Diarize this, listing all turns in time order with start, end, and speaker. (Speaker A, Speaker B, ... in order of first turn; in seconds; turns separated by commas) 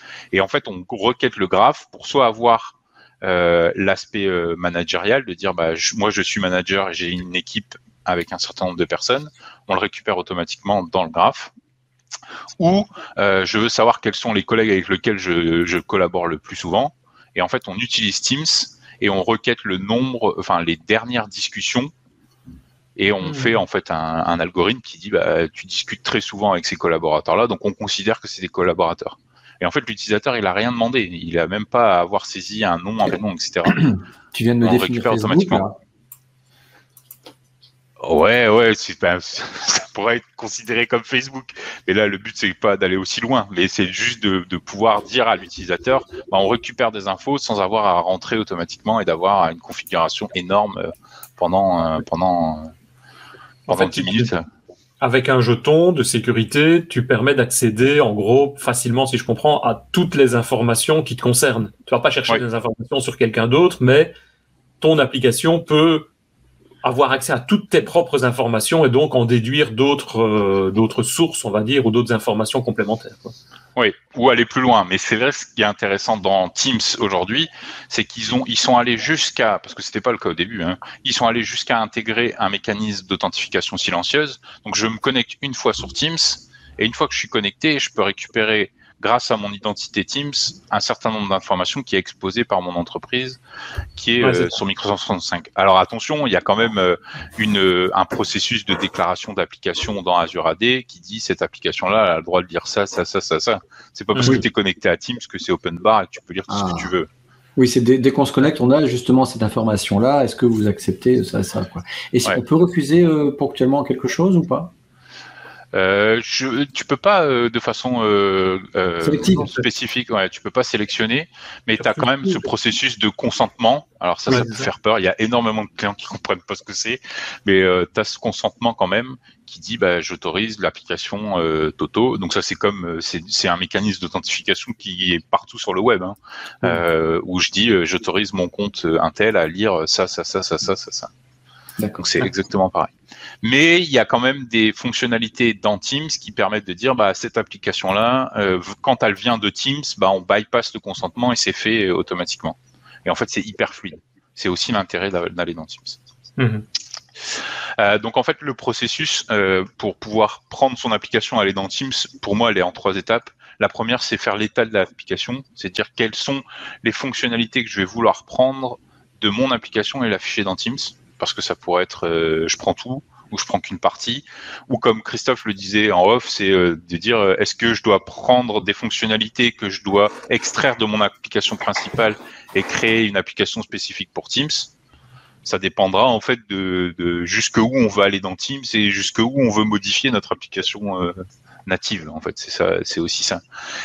Speaker A: 0.3-11.5, Speaker A: 12.6-21.9, Speaker A: 22.9-33.9, Speaker B: 23.2-23.6, Speaker C: 33.7-35.8, Speaker A: 34.6-35.6, Speaker A: 38.0-52.7, Speaker B: 53.7-54.3, Speaker A: 53.7-54.5, Speaker B: 55.0-64.1, Speaker B: 64.8-66.1, Speaker B: 66.8-73.3, Speaker A: 73.8-93.4, Speaker A: 94.0-107.1, Speaker B: 94.2-94.5, Speaker B: 104.1-104.4, Speaker C: 106.5-106.9, Speaker C: 107.5-114.7, Speaker A: 115.7-141.1, Speaker C: 119.0-119.6, Speaker B: 121.8-122.4, Speaker B: 124.3-124.7, Speaker C: 141.8-142.1, Speaker A: 142.0-142.9, Speaker A: 143.4-156.0, Speaker B: 156.4-156.6, Speaker A: 157.8-184.7, Speaker A: 185.4-193.4